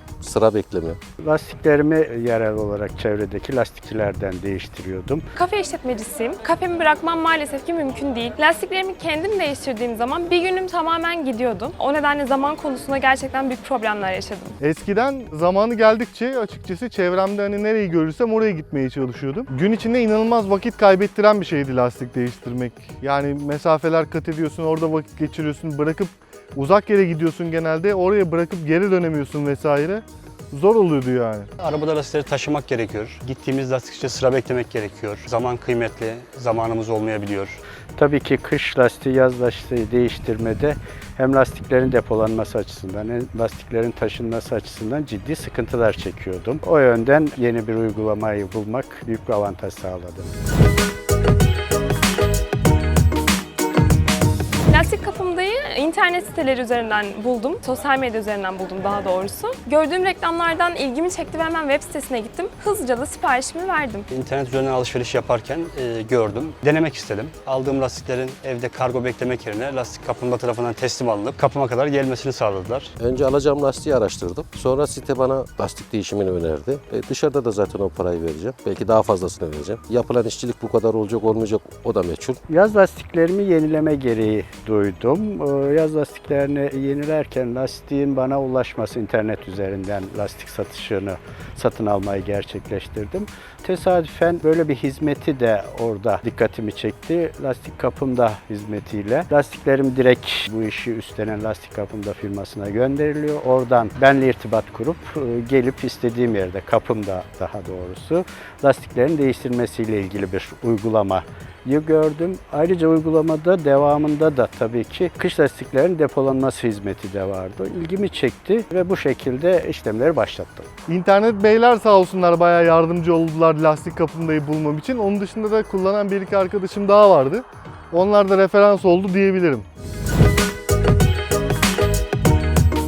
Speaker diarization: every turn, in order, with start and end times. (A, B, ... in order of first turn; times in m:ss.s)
0:00.2-0:01.0 A
0:01.2-0:05.2 B
0:05.3-0:14.6 C
0:14.6-0:31.5 D
0:31.6-0:37.6 E
0:38.0-0:50.3 B
0:54.7-1:04.1 C
1:04.1-1:12.9 E
1:13.0-1:22.4 A
1:22.5-2:00.7 B
2:00.9-2:09.6 D